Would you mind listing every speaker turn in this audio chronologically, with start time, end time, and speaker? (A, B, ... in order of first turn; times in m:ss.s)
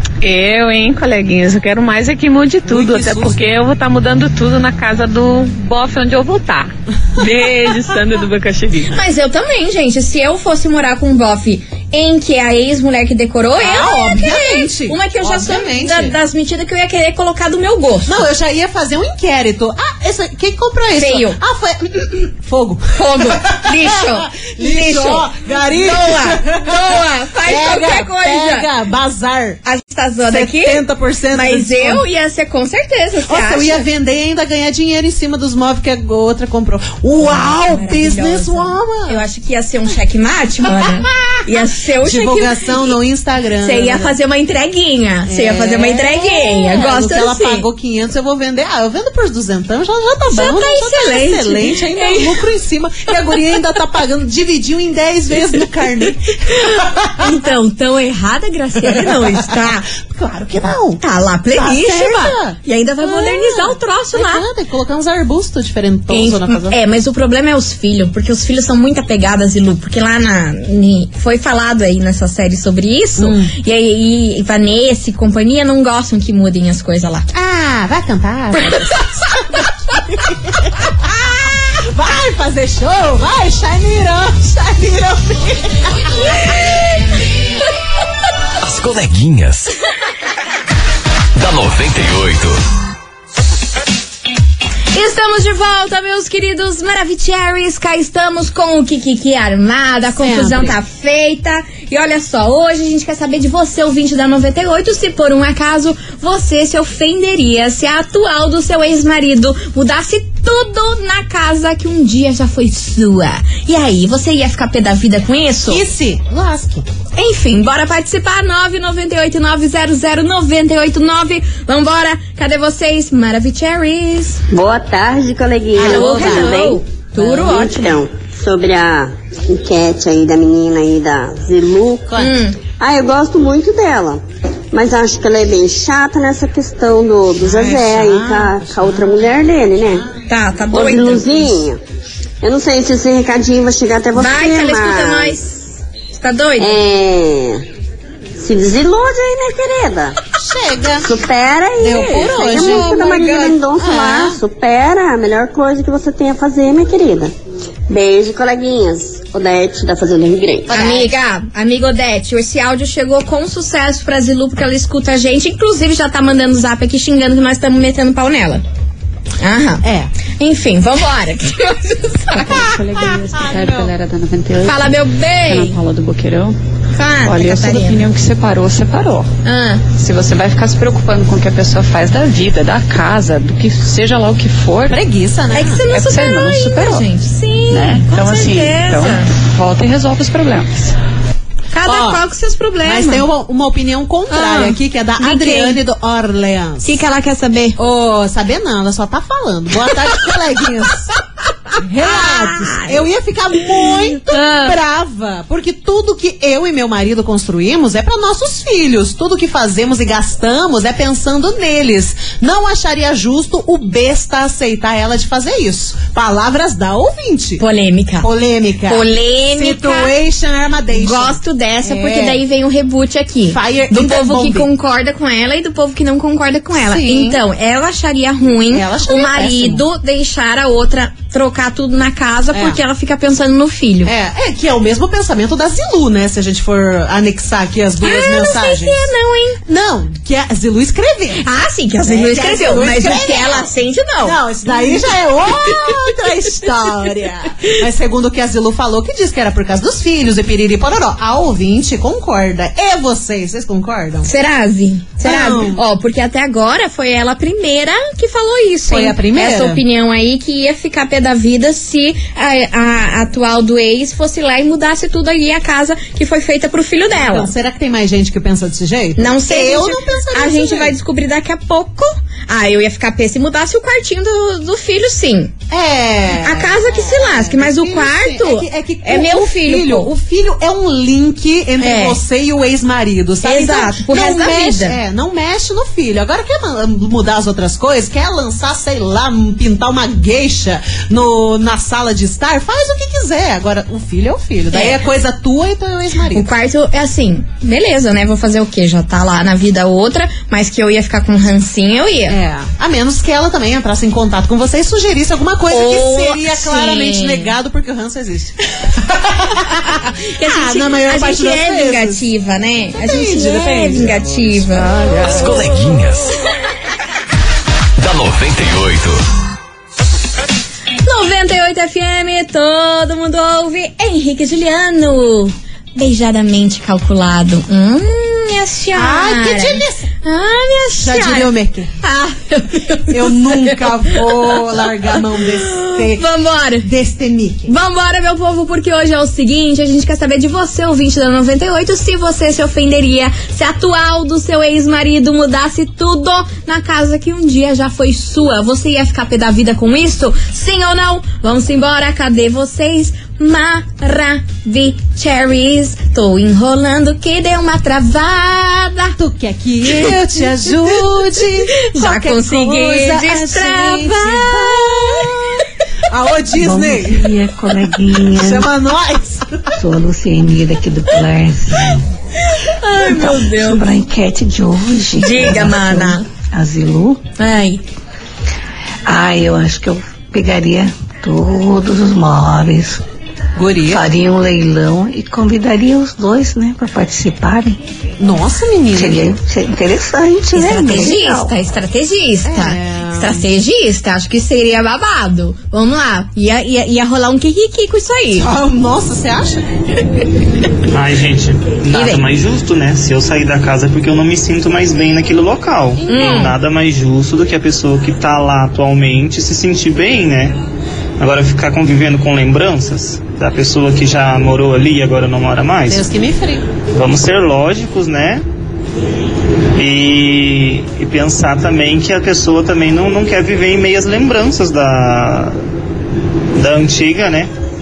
0:00.2-0:09.0 A
0:02.7-0:03.4 B
0:08.9-0:18.2 C
0:13.6-0:16.2 B
0:18.1-0:29.6 B
0:21.0-0:21.4 C
0:22.9-0:28.7 C
0:29.6-0:33.9 C
0:30.3-0:32.0 B
0:33.3-0:39.2 B
0:37.2-0:43.0 C
0:42.0-0:44.2 B
0:43.6-0:47.7 C
0:45.3-0:57.3 B
0:50.3-0:52.4 C
0:57.2-0:59.9 C
0:58.9-1:01.0 B
1:01.0-1:04.4 C
1:01.5-1:06.8 B
1:06.1-1:17.3 C
1:13.2-1:13.5 B
1:17.3-1:26.6 B
1:28.6-1:29.7 D
1:31.4-1:32.6 D
1:34.9-1:55.8 C
1:40.2-1:40.8 B
1:55.7-1:56.9 B
1:57.2-2:04.4 C
2:04.5-2:12.2 E
2:05.8-2:06.5 B
2:05.8-2:08.0 C
2:12.1-2:12.4 B
2:12.2-2:12.6 C
2:12.8-2:14.2 E
2:14.7-2:20.0 E
2:17.4-2:19.3 B
2:20.3-2:21.5 C
2:20.7-2:21.8 E
2:22.4-2:25.4 E
2:24.2-2:26.8 C
2:26.6-2:27.6 E
2:28.4-2:30.2 E
2:30.3-2:31.1 B
2:31.0-2:37.3 E
2:31.8-2:33.0 B
2:31.9-2:33.6 C
2:33.8-2:34.4 B
2:37.9-2:40.9 E
2:40.7-2:48.6 C
2:49.4-2:49.9 C
2:49.8-2:50.1 B
2:50.4-2:52.7 C
2:52.4-2:56.6 F
2:52.5-2:53.9 B
2:54.6-2:55.8 C
2:57.0-2:58.0 C
2:57.2-2:59.3 F
2:59.4-2:59.8 C
2:59.9-3:05.0 F
3:04.9-3:05.9 B
3:05.5-3:09.3 C
3:05.9-3:07.1 F
3:07.7-3:11.0 F
3:11.7-3:13.2 C
3:11.9-3:12.2 B
3:12.8-3:17.0 B
3:14.3-3:15.8 C
3:16.8-3:17.8 C
3:17.8-3:21.1 B
3:21.7-3:23.1 C
3:21.8-3:37.6 B
3:23.6-3:24.8 C
3:37.6-3:38.3 C
3:38.2-3:42.4 B
3:38.9-3:40.1 C
3:41.0-3:54.1 C
3:43.5-3:44.7 B
3:46.8-3:47.4 B
3:48.7-3:49.8 B
3:52.5-3:52.8 B
3:54.1-3:59.1 B
3:58.0-3:59.6 C
3:59.7-4:01.4 B
4:01.4-4:05.0 C
4:02.0-4:03.7 B
4:04.2-4:14.3 B
4:14.2-4:27.5 C
4:15.2-4:15.8 B
4:18.9-4:19.8 B
4:27.2-4:30.9 B
4:29.2-4:35.6 C
4:35.7-4:56.5 B
4:36.4-4:40.1 C
4:41.8-4:42.2 C
4:43.4-4:45.0 C
4:54.7-4:55.0 C
4:56.3-5:02.4 C
5:02.3-5:12.3 B
5:05.7-5:07.5 C
5:09.8-5:15.0 C
5:12.9-5:15.4 B
5:15.2-5:16.4 D
5:18.0-5:19.2 D
5:21.0-5:34.6 C
5:28.9-5:30.1 B
5:31.0-5:31.9 B
5:33.1-5:36.3 B
5:35.6-5:36.8 C
5:36.8-5:37.7 B
5:37.7-5:59.2 C
5:59.2-6:07.3 B
6:01.9-6:05.3 C
6:06.6-6:08.7 G
6:08.3-6:09.6 B
6:09.8-6:12.0 G
6:12.4-6:13.9 C
6:13.0-6:17.2 G
6:15.2-6:16.2 C
6:17.4-6:17.8 C
6:19.1-6:23.0 G
6:23.6-6:24.0 B
6:23.9-6:27.8 G
6:28.2-6:29.3 B
6:29.0-6:31.5 G
6:30.5-6:38.5 C
6:32.4-6:33.4 B
6:38.4-6:39.7 B
6:40.9-6:50.6 H
6:41.9-6:42.3 C
6:46.0-6:46.6 C
6:46.1-6:46.5 B
6:51.2-6:56.1 H
6:55.9-6:56.7 B
6:56.9-6:58.4 H
6:59.8-7:05.6 H
7:06.6-7:07.5 H